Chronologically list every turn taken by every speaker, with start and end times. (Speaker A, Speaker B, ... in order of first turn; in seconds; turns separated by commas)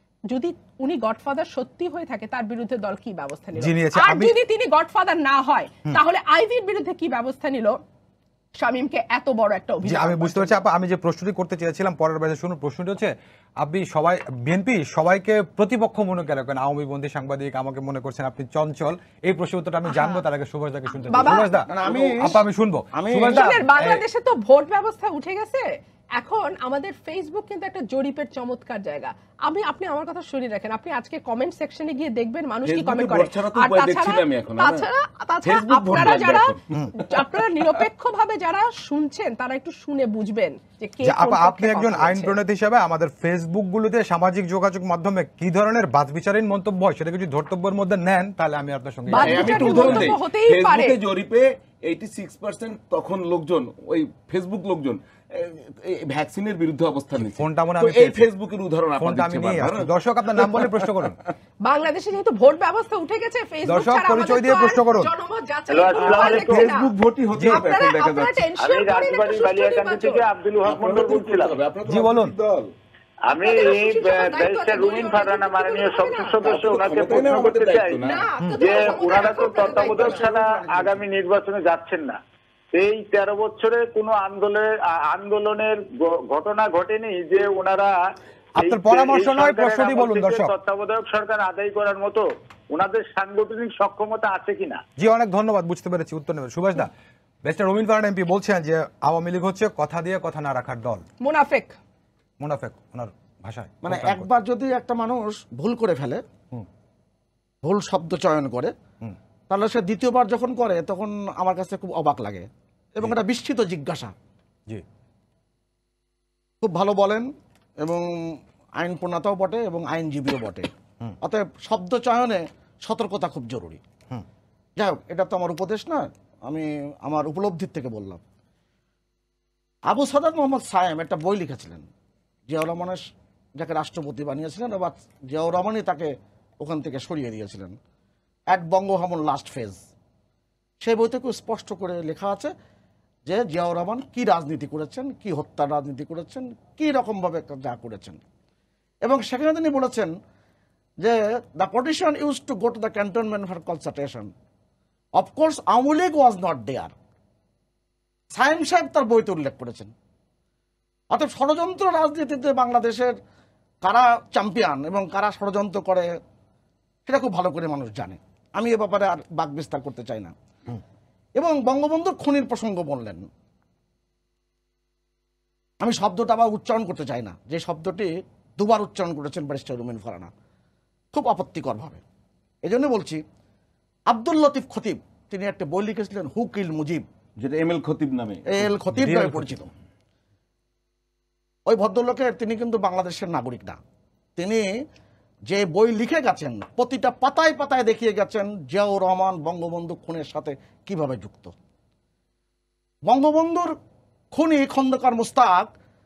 Speaker A: 0.3-7.8, Speaker B: 3.6-4.4, Speaker A: 8.6-10.6, Speaker B: 9.8-24.0, Speaker A: 19.9-20.2, Speaker A: 21.1-21.7, Speaker C: 21.6-22.4, Speaker D: 21.9-22.2, Speaker C: 22.9-23.5, Speaker A: 23.3-42.4, Speaker D: 32.6-34.9, Speaker D: 35.4-37.7, Speaker B: 41.0-50.1, Speaker A: 49.1-51.0, Speaker D: 49.1-61.2, Speaker B: 57.3-58.2, Speaker B: 59.0-61.2, Speaker A: 61.6-66.9, Speaker B: 63.7-65.1, Speaker E: 65.7-66.7, Speaker D: 66.0-68.4, Speaker B: 67.3-67.7, Speaker A: 67.5-70.3, Speaker E: 68.6-71.6, Speaker D: 70.6-72.7, Speaker B: 71.9-72.3, Speaker E: 73.3-82.2, Speaker A: 73.3-76.8, Speaker D: 76.5-78.2, Speaker A: 78.0-80.3, Speaker C: 78.9-81.0, Speaker E: 82.7-88.0, Speaker B: 88.6-90.5, Speaker E: 88.6-94.8, Speaker B: 95.0-96.9, Speaker B: 97.5-101.0, Speaker A: 101.2-101.8, Speaker B: 102.4-104.3, Speaker C: 103.8-106.2, Speaker C: 107.6-108.7, Speaker C: 109.5-114.1, Speaker C: 116.6-117.3, Speaker C: 117.8-120.7, Speaker C: 121.2-123.8, Speaker C: 124.8-128.2, Speaker C: 129.9-131.8, Speaker C: 132.5-133.0, Speaker C: 133.6-137.8, Speaker C: 138.5-139.8, Speaker C: 140.8-142.5, Speaker C: 143.3-148.2, Speaker C: 149.0-150.1, Speaker C: 151.0-154.3, Speaker C: 155.2-156.9, Speaker C: 158.3-159.9, Speaker C: 161.1-163.1, Speaker C: 163.8-166.1, Speaker C: 167.1-170.3, Speaker C: 171.4-173.3, Speaker C: 175.8-180.3, Speaker C: 181.1-182.0, Speaker C: 182.6-183.2, Speaker C: 184.1-187.0, Speaker D: 187.4-188.7, Speaker C: 188.5-189.7, Speaker B: 188.9-189.7, Speaker C: 191.7-193.8, Speaker C: 194.4-194.7, Speaker C: 195.5-201.5, Speaker C: 203.1-203.7, Speaker C: 204.3-205.7